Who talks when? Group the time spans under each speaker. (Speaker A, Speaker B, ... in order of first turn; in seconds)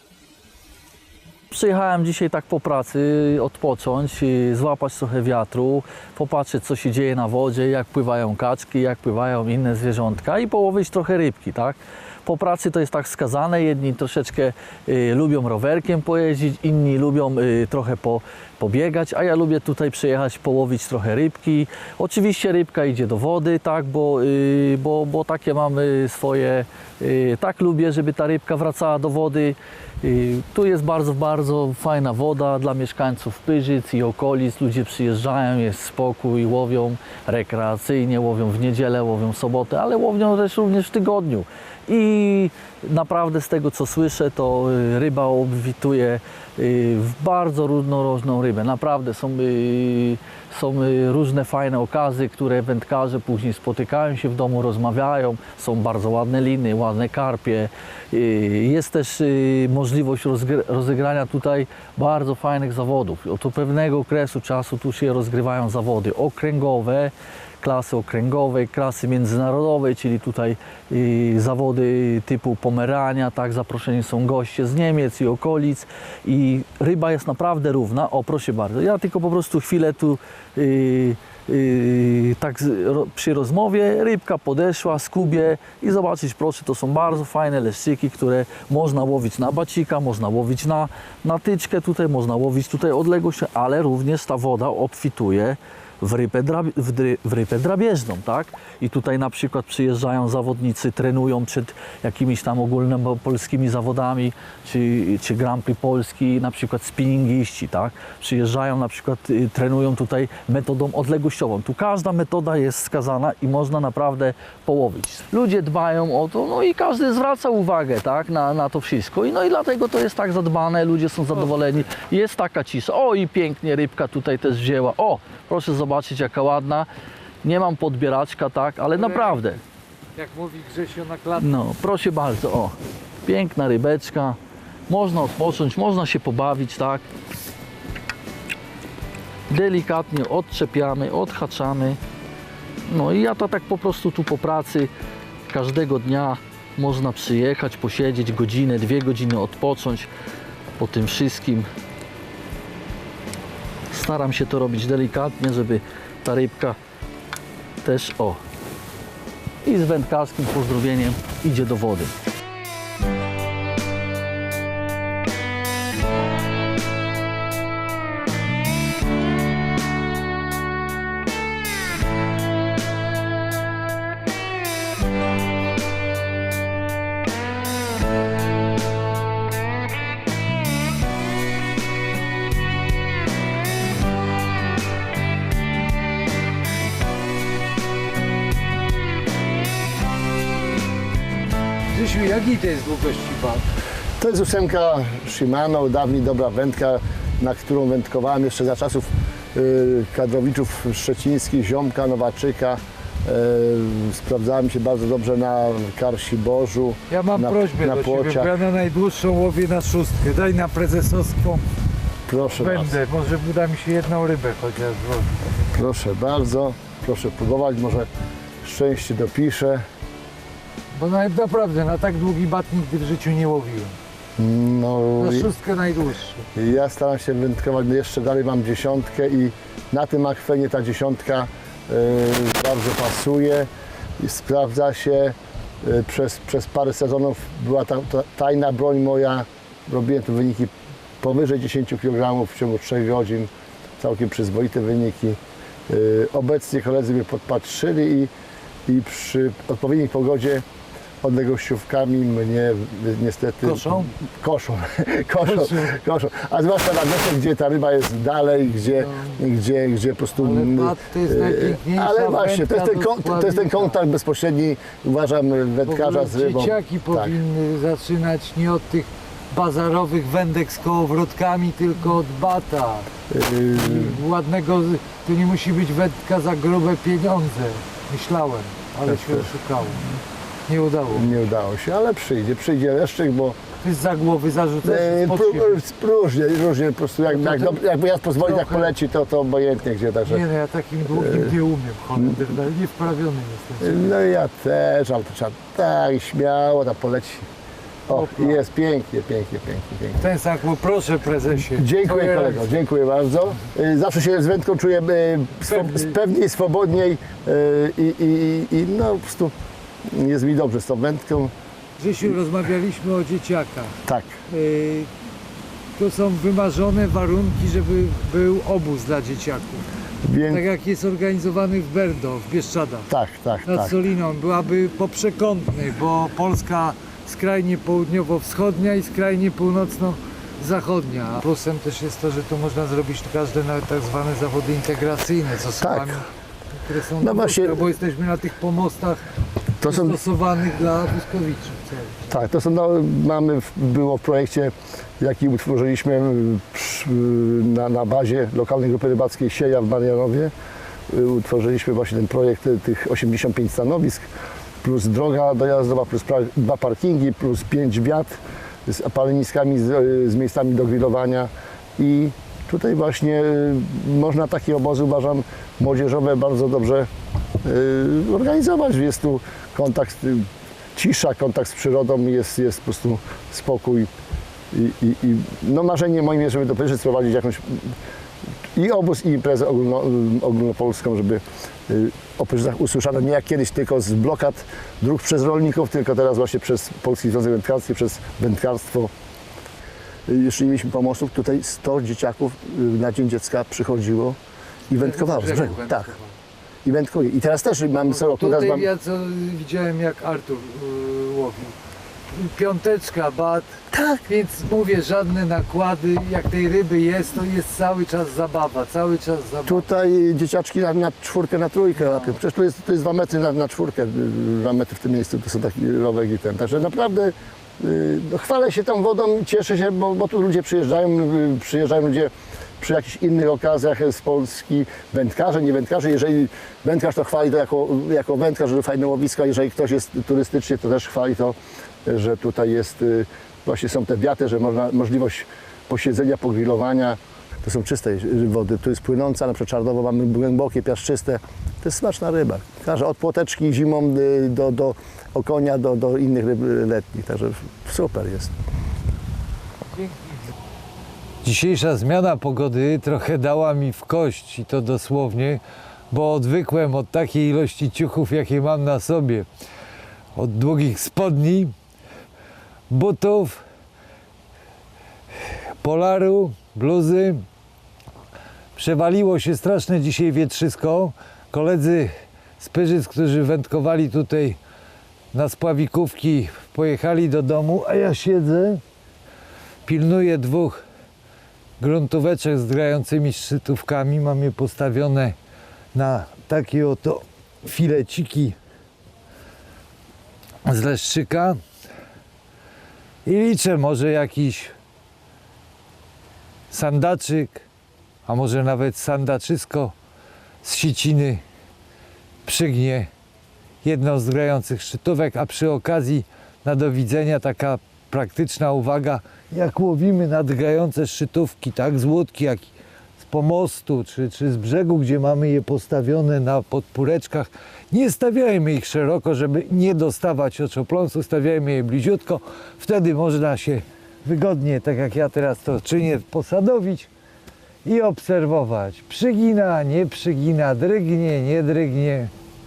Speaker A: 1.5-126.9, 127.4-129.6, 131.4-134.4, 134.9-137.1, 139.5-142.0, 142.9-144.9, 145.5-150.1, 150.8-151.7, 153.9-156.8, 157.8-158.4, 159.6-162.2
Speaker B: 128.9-129.6, 130.2-131.5, 191.9-193.6, 207.1-211.7, 212.6-215.5, 220.9-224.0, 225.2-226.5, 253.6-254.1, 255.4-256.0, 259.0-259.4, 260.4-264.0, 265.9-273.1, 273.7-280.1, 280.7-281.3, 283.8-285.8, 287.3-287.8, 288.4-288.9, 290.3-294.1, 298.1-298.6, 300.2-302.7, 305.7-306.2, 312.0-315.1, 316.0-319.9, 320.5-323.1, 323.6-339.2, 339.9-342.2, 395.0-396.4, 398.1-401.8, 402.3-409.9, 451.4-459.5, 460.4-461.7, 462.9-463.6, 465.8-467.4, 468.8-474.6, 475.3-478.8, 479.9-480.8, 481.8-485.4, 485.9-488.6, 490.6-491.6, 493.2-494.8, 496.7-497.6, 498.3-499.9, 500.6-501.4, 502.4-503.1, 503.8-527.1, 527.9-532.3
Speaker C: 194.2-208.6, 212.3-212.9, 215.7-218.1, 218.6-219.8, 224.4-225.5, 226.6-233.7, 234.2-248.3, 248.9-250.6, 251.2-267.4, 273.3-274.2, 279.1-279.5, 281.1-283.6, 284.8-290.4, 291.1-291.5, 293.8-297.5, 298.1-300.2, 301.8-309.5, 310.1-311.5, 314.1-314.4, 320.2-320.6, 323.1-323.9, 335.8-336.2, 337.2-337.8, 339.8-340.2, 342.3-350.5, 351.1-354.3, 354.8-367.1, 367.6-374.1, 374.7-378.0, 378.8-389.1, 390.3-394.4, 394.9-396.1, 396.8-398.9, 403.9-404.2, 409.7-448.5